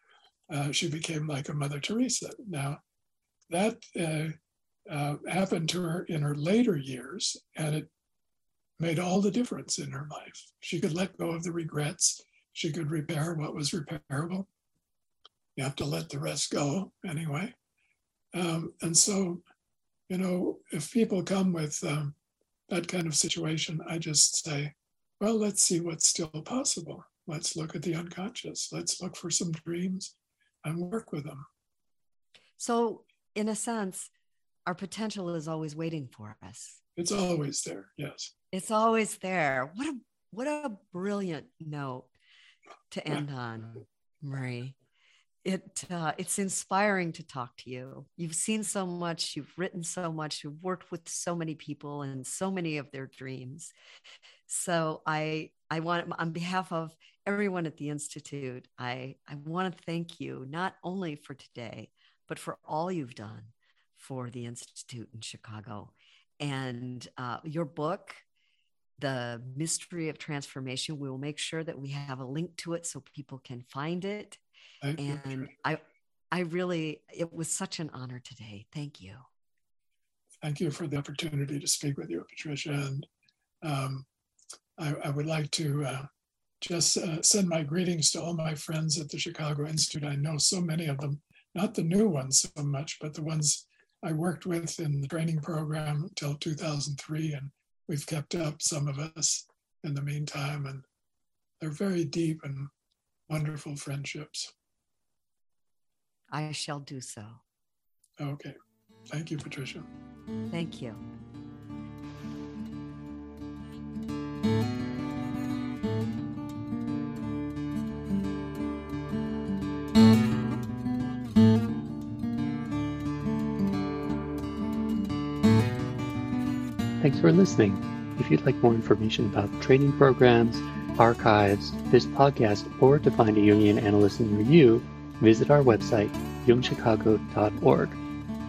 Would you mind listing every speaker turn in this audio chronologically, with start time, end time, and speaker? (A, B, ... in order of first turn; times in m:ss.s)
0:00.5-0:02.8 A
0:03.5-0:04.4 A
0:04.9-0:07.9 A
0:08.8-0:14.5 A
0:15.6-0:17.5 A
0:18.3-0:19.4 A
0:20.1-0:22.2 A
0:22.7-0:31.4 A
0:32.6-0:34.1 B
0:34.6-0:36.8 B
0:37.0-0:38.3 A
0:38.5-0:42.1 B
0:42.9-0:44.8 B
0:45.4-0:53.7 B
0:54.5-1:08.2 B
1:09.0-1:14.4 B
1:14.8-1:15.5 A
1:15.0-1:19.2 B
1:20.4-1:23.1 A
1:23.6-1:24.1 A
1:24.8-1:26.1 A
1:26.6-1:40.8 A
1:41.6-1:42.7 A
1:43.3-1:44.5 A
1:46.3-1:47.4 B
1:48.2-1:48.5 A
1:49.1-1:49.9 A
1:50.5-1:51.0 B
2:07.0-2:18.0 C